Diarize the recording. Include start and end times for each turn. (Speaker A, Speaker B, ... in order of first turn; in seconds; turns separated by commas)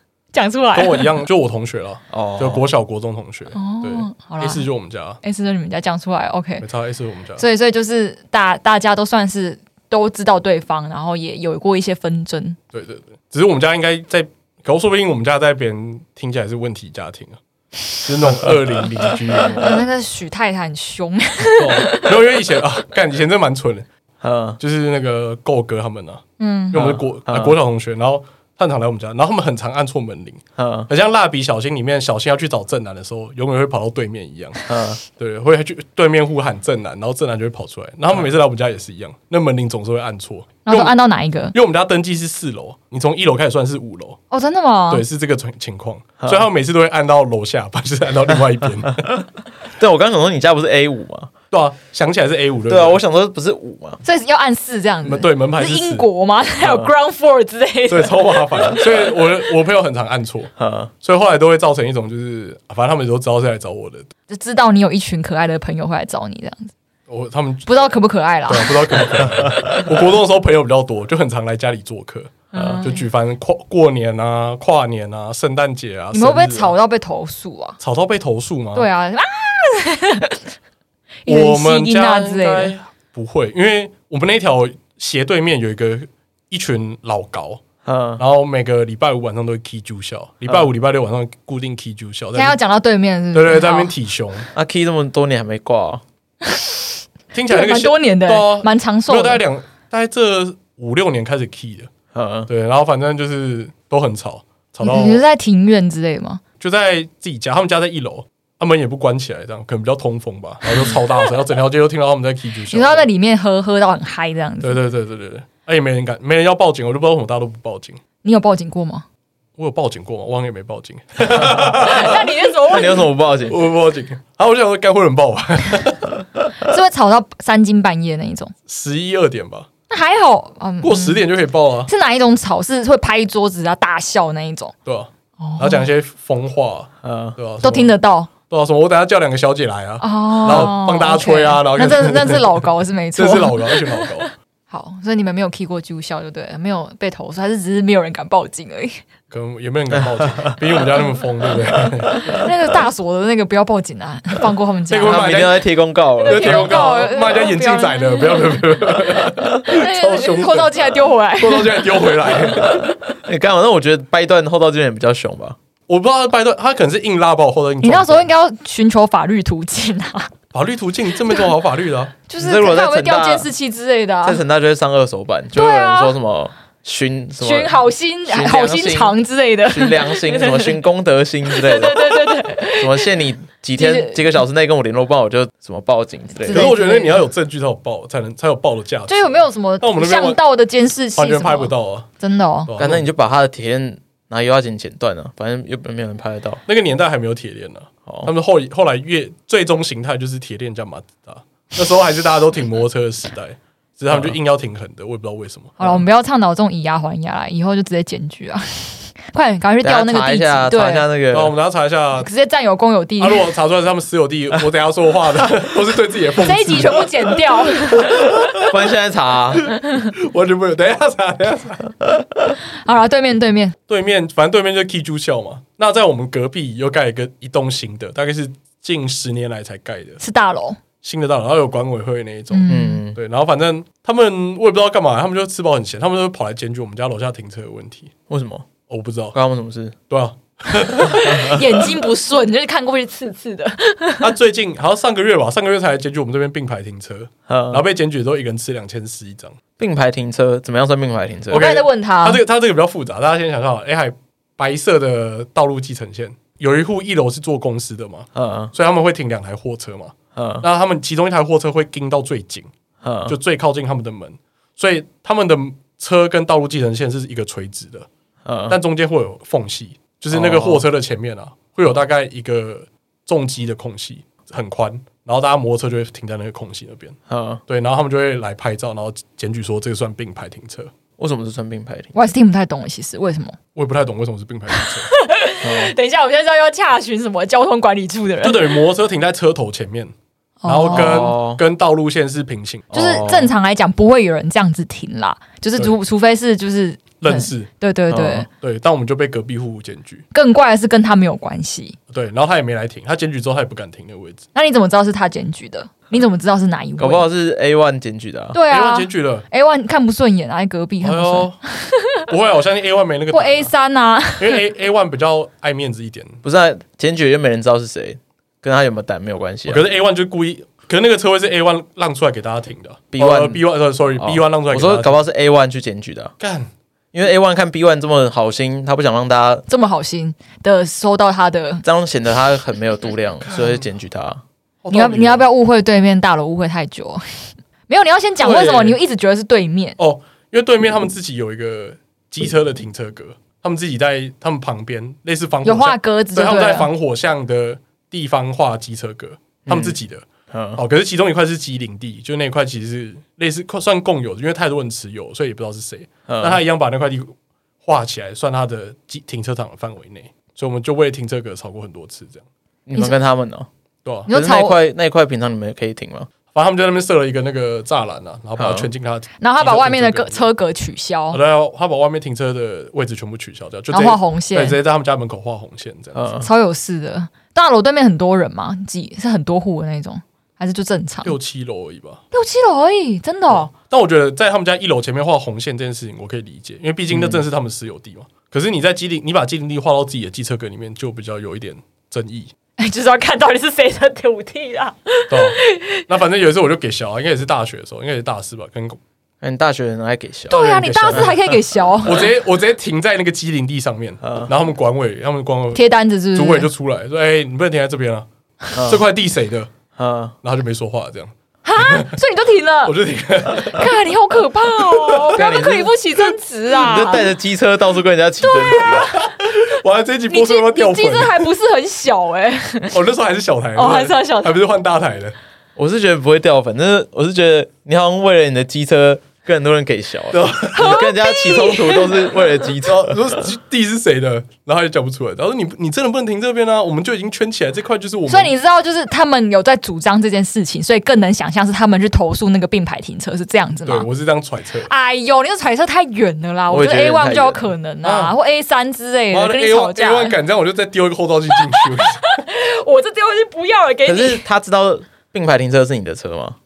Speaker A: 0.3-1.2, Speaker B: 0.7-5.2, Speaker C: 2.1-2.6, Speaker A: 3.5-4.7, Speaker A: 5.2-6.7, Speaker B: 6.6-7.4, Speaker A: 7.4-12.6, Speaker B: 12.7-17.4, Speaker B: 18.0-19.9, Speaker A: 19.5-22.3, Speaker B: 21.6-23.9, Speaker C: 24.2-24.6, Speaker B: 24.6-40.9, Speaker A: 26.4-26.9, Speaker C: 26.8-27.6, Speaker C: 30.6-30.9, Speaker C: 34.7-35.0, Speaker A: 40.6-41.5, Speaker B: 41.5-44.2, Speaker A: 44.3-45.0, Speaker B: 44.9-49.2, Speaker C: 46.2-46.5, Speaker C: 49.8-51.3, Speaker B: 51.5-53.0, Speaker C: 52.7-54.0, Speaker A: 54.0-59.2, Speaker B: 55.0-56.0, Speaker C: 56.6-56.9, Speaker B: 57.9-64.1, Speaker C: 60.6-60.9, Speaker A: 64.3-66.7, Speaker B: 67.1-67.9, Speaker A: 67.7-69.2, Speaker B: 68.5-76.7, Speaker A: 72.5-73.0, Speaker C: 72.5-72.8, Speaker A: 76.1-77.8, Speaker B: 77.8-78.9, Speaker A: 78.7-80.4, Speaker A: 81.2-82.7, Speaker B: 81.2-87.6, Speaker C: 87.8-88.2, Speaker B: 88.2-92.6, Speaker A: 92.3-93.9, Speaker B: 93.3-94.5, Speaker C: 94.5-96.0, Speaker B: 97.3-101.9, Speaker A: 97.5-99.4, Speaker C: 102.1-102.5, Speaker B: 102.5-105.2, Speaker A: 104.8-106.4, Speaker B: 106.6-113.1, Speaker A: 112.7-114.8, Speaker B: 114.6-118.0, Speaker A: 118.2-119.0, Speaker B: 119.6-122.3, Speaker A: 121.7-123.1, Speaker C: 122.7-123.6, Speaker B: 123.5-126.2, Speaker A: 126.6-128.5, Speaker B: 128.7-129.7, Speaker A: 129.9-131.2, Speaker B: 130.8-131.9, Speaker A: 131.9-134.7, Speaker B: 134.8-137.9, Speaker A: 135.4-135.8, Speaker C: 137.0-137.4, Speaker A: 137.6-138.3, Speaker B: 138.5-142.6, Speaker A: 140.0-149.0, Speaker B: 143.2-144.3, Speaker B: 149.3-152.5, Speaker C: 149.9-150.5, Speaker A: 152.2-155.6, Speaker B: 154.9-155.6, Speaker C: 155.0-156.9, Speaker A: 156.2-162.6, Speaker B: 156.2-162.8, Speaker C: 163.2-165.6, Speaker B: 165.9-168.3, Speaker A: 167.8-170.3, Speaker B: 170.5-172.2, Speaker A: 172.3-174.4, Speaker C: 172.4-173.5, Speaker C: 174.2-179.2, Speaker A: 175.5-176.2, Speaker A: 177.4-180.8, Speaker C: 179.7-186.7, Speaker A: 181.5-183.2, Speaker A: 183.7-184.4, Speaker A: 186.4-187.3, Speaker B: 186.5-190.4, Speaker A: 189.1-192.7, Speaker B: 191.2-192.1, Speaker B: 192.7-193.0, Speaker C: 192.8-196.6, Speaker B: 196.7-206.0, Speaker C: 198.1-198.3, Speaker A: 205.8-211.1, Speaker C: 209.8-211.5, Speaker B: 211.3-212.3, Speaker A: 212.2-213.5, Speaker B: 213.2-218.6, Speaker A: 216.4-218.6, Speaker C: 218.6-219.7, Speaker B: 219.7-222.1, Speaker A: 222.8-223.7, Speaker B: 223.9-230.2, Speaker A: 230.2-230.8, Speaker B: 231.0-238.1, Speaker A: 232.5-233.0, Speaker C: 232.7-233.2, Speaker C: 238.3-238.7, Speaker B: 238.9-239.3, Speaker C: 239.3-239.9, Speaker B: 240.1-241.7, Speaker A: 240.9-244.3, Speaker C: 241.2-241.5, Speaker B: 244.2-249.6, Speaker C: 247.5-247.8, Speaker C: 249.8-251.7, Speaker A: 251.5-252.4, Speaker B: 251.5-262.7, Speaker C: 258.3-258.7, Speaker C: 260.3-260.6, Speaker C: 263.0-263.4, Speaker B: 263.2-268.1, Speaker C: 268.4-268.8, Speaker B: 268.7-277.1, Speaker C: 270.3-270.8, Speaker C: 277.3-277.6, Speaker B: 277.7-280.9, Speaker C: 281.2-282.3, Speaker A: 282.1-283.6, Speaker B: 283.7-285.1, Speaker A: 284.8-288.8, Speaker C: 285.6-285.9, Speaker B: 288.4-290.1, Speaker A: 290.6-291.4, Speaker B: 290.7-292.9, Speaker C: 290.9-291.6, Speaker C: 292.9-293.5, Speaker A: 292.9-298.5, Speaker B: 297.2-297.7, Speaker C: 298.1-298.4, Speaker B: 298.5-300.2, Speaker A: 300.3-302.0, Speaker B: 302.1-304.4, Speaker A: 304.5-307.2, Speaker C: 307.0-308.6, Speaker A: 308.5-312.3, Speaker B: 308.7-309.4, Speaker B: 311.0-311.6, Speaker B: 312.3-313.7, Speaker A: 313.3-314.6, Speaker B: 314.4-316.4, Speaker C: 316.4-319.8, Speaker B: 319.7-325.1, Speaker C: 323.1-323.6, Speaker C: 324.2-326.3, Speaker B: 326.4-326.7, Speaker C: 327.1-329.6, Speaker A: 329.7-331.8, Speaker C: 331.8-334.4, Speaker B: 333.5-333.8, Speaker B: 334.8-335.4, Speaker A: 334.9-340.0, Speaker B: 338.4-339.0, Speaker B: 340.0-350.2, Speaker A: 345.6-346.9, Speaker C: 349.6-350.0, Speaker C: 350.5-350.8, Speaker B: 350.8-362.4, Speaker C: 356.3-356.6, Speaker C: 362.9-363.7, Speaker A: 364.3-364.8, Speaker C: 364.3-366.3, Speaker B: 366.5-370.4, Speaker C: 368.6-368.9, Speaker A: 369.4-371.4, Speaker B: 371.3-376.2, Speaker A: 373.9-374.8, Speaker C: 376.1-376.5, Speaker A: 376.4-381.4, Speaker B: 381.2-382.2, Speaker A: 382.3-383.7, Speaker B: 383.5-392.5, Speaker C: 387.1-387.4, Speaker A: 392.8-396.0, Speaker B: 395.3-399.0, Speaker C: 399.4-401.5, Speaker A: 400.5-402.3, Speaker B: 400.5-408.3, Speaker C: 404.2-404.5, Speaker A: 405.7-406.7, Speaker C: 408.7-409.0, Speaker B: 408.8-409.7, Speaker C: 409.9-410.4, Speaker B: 410.4-412.2, Speaker A: 411.6-412.9, Speaker B: 412.8-413.9, Speaker A: 413.6-417.3, Speaker B: 414.9-415.4, Speaker C: 415.3-415.9, Speaker C: 416.7-419.1, Speaker A: 418.4-419.3, Speaker B: 419.0-421.5, Speaker A: 420.3-423.0, Speaker B: 422.9-425.3, Speaker A: 423.8-424.6, Speaker C: 425.8-433.5, Speaker B: 430.3-430.9, Speaker A: 430.7-432.6, Speaker B: 432.8-438.5, Speaker A: 438.3-444.1, Speaker B: 443.8-444.9, Speaker A: 444.9-450.4, Speaker C: 446.7-447.7, Speaker B: 448.0-448.3, Speaker B: 449.3-452.4, Speaker A: 451.6-454.4, Speaker C: 454.0-456.6